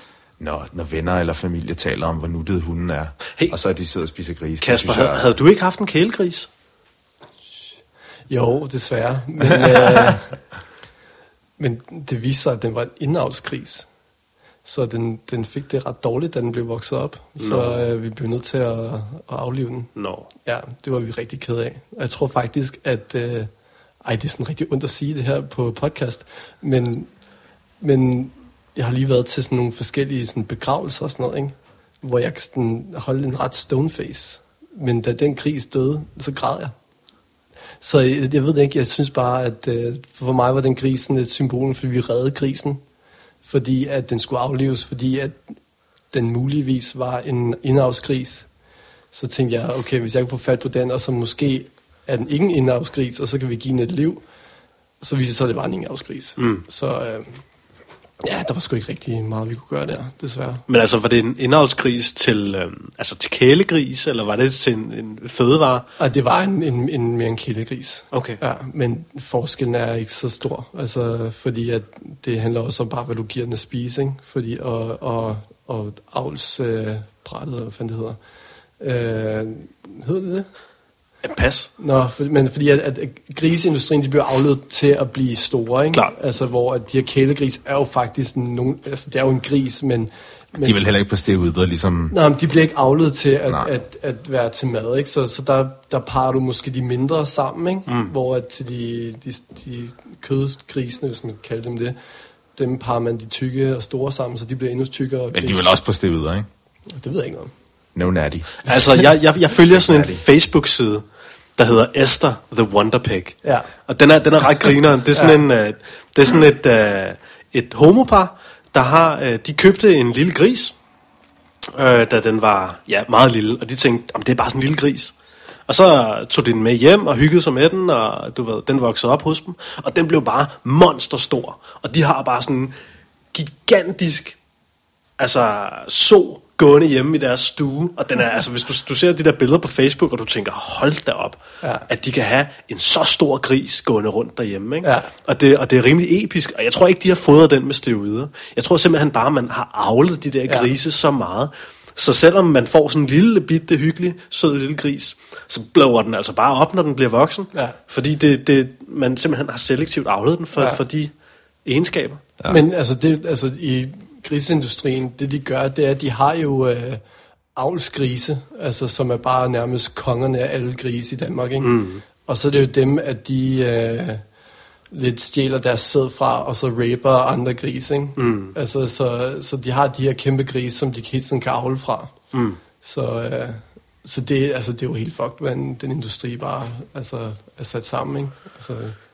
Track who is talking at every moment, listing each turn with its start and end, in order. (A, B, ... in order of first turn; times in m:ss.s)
0:00.4-0:05.3 A
0:04.6-0:06.5 B
0:08.3-0:10.3 C
0:11.6-0:13.9 C
0:14.6-0:19.9 C
0:17.4-0:17.8 B
0:20.0-0:20.3 B
0:20.4-0:23.5 C
0:24.0-0:27.1 C
0:27.8-0:36.7 C
0:37.8-0:42.8 C
0:43.4-0:45.4 C
0:46.1-0:48.5 C
0:49.1-0:54.2 C
0:55.0-0:57.4 C
0:56.4-0:56.6 B
0:58.2-1:00.6 C
1:00.7-1:05.9 B
1:06.0-1:18.2 C
1:08.1-1:08.4 B
1:18.8-1:20.5 C
1:21.2-1:21.7 B
1:21.8-1:30.7 C
1:30.6-1:32.2 A
1:32.1-1:42.0 C
1:37.9-1:38.1 B
1:42.6-1:45.6 C
1:45.3-1:46.5 A
1:46.9-1:47.5 C
1:47.9-1:48.7 A
1:48.6-1:51.0 B
1:49.7-1:50.2 A
1:51.6-2:00.7 B
2:01.7-2:05.1 B
2:05.7-2:12.7 B
2:13.3-2:14.4 B
2:15.2-2:41.1 B
2:24.8-2:25.1 C
2:41.6-2:42.2 B
2:42.5-2:47.0 C
2:47.6-2:54.2 C
2:51.6-2:52.0 B
2:54.9-3:02.1 C
2:58.2-2:58.5 B
3:02.3-3:02.6 B
3:02.8-3:09.0 C